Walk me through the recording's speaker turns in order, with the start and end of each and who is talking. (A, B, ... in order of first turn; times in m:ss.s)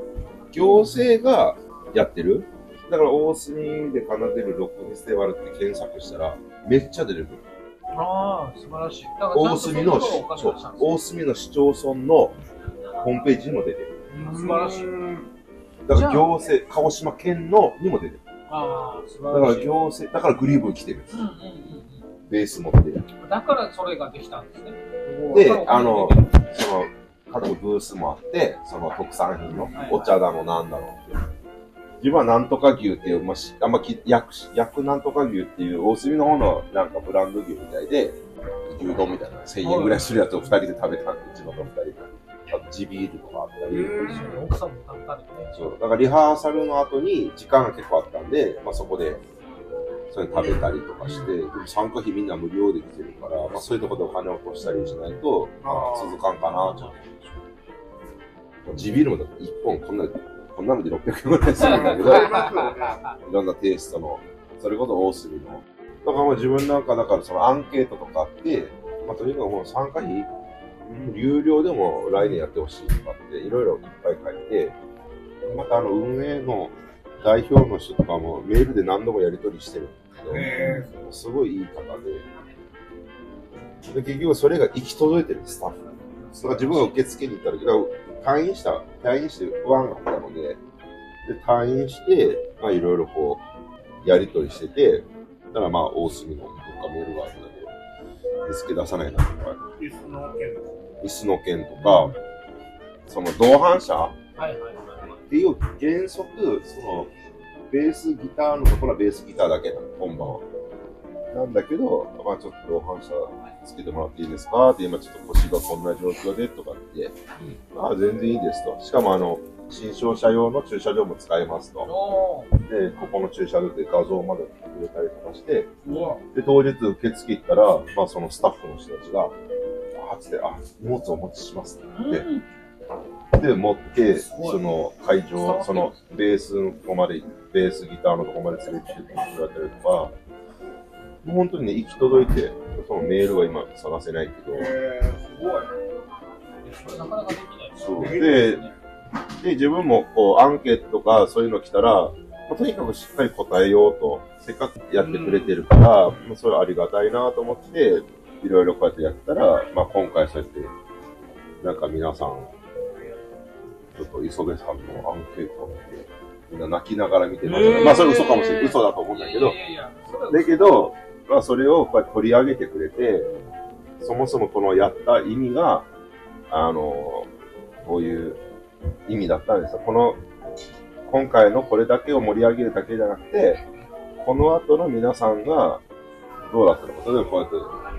0:00.5-0:07.4 A
0:00.6-0:01.0 B
0:07.9-0:11.0 B
0:09.3-0:12.4 A
0:12.9-0:13.9 A
0:14.1-0:15.0 B
0:14.2-0:15.2 C
0:15.8-0:18.2 A
0:15.9-0:16.3 B
0:18.5-0:19.7 B
0:19.3-0:21.2 A
0:21.1-0:22.0 B
0:22.3-0:23.1 A
0:23.2-0:26.4 B
0:25.3-0:31.2 A
0:29.7-0:30.2 B
0:32.0-0:44.3 A
0:39.6-0:40.6 B
0:43.7-0:44.4 C
0:44.0-0:45.7 B
0:45.5-0:49.2 A
0:50.1-0:57.0 A
0:51.0-0:51.3 B
0:54.6-0:55.2 B
0:55.6-0:56.2 C
0:56.4-0:57.3 B
0:58.6-1:02.6 A
1:01.6-1:03.1 B
1:01.6-1:03.0 C
1:03.2-1:10.3 A
1:10.8-1:14.8 A
1:12.1-1:12.4 B
1:15.4-1:22.2 A
1:20.3-1:20.9 C
1:20.3-1:20.9 B
1:23.9-1:25.8 A
1:26.2-1:27.0 B
1:26.4-1:30.6 A
1:31.2-1:33.4 A
1:34.0-1:37.7 A
1:38.4-1:39.6 A
1:39.8-1:40.7 C
1:41.0-1:42.1 A
1:41.8-1:42.2 B
1:43.1-1:44.2 A
1:44.4-1:45.2 B
1:45.3-1:47.1 A
1:47.7-1:50.4 A
1:50.1-1:50.4 B
1:51.3-1:57.1 A
1:57.7-2:01.9 A
2:01.8-2:02.5 B
2:02.6-2:09.3 A
2:05.8-2:06.2 B
2:09.9-2:12.3 A
2:11.9-2:12.5 B
2:13.3-2:20.1 A
2:14.1-2:14.6 B
2:15.4-2:16.0 B
2:21.2-2:24.7 A
2:24.5-2:25.7 C
2:26.6-2:28.7 B
2:27.8-2:28.6 A
2:28.0-2:28.5 C
2:29.4-2:40.7 A
2:35.0-2:35.6 C
2:41.6-2:42.5 A
2:44.0-2:49.6 A
2:47.4-2:50.9 B
2:50.3-2:53.3 A
2:54.0-2:55.9 A
2:56.5-2:57.3 A
2:57.8-2:58.4 A
2:59.1-3:00.2 A
3:01.0-3:03.6 A
3:04.2-3:05.8 A
3:06.4-3:07.8 A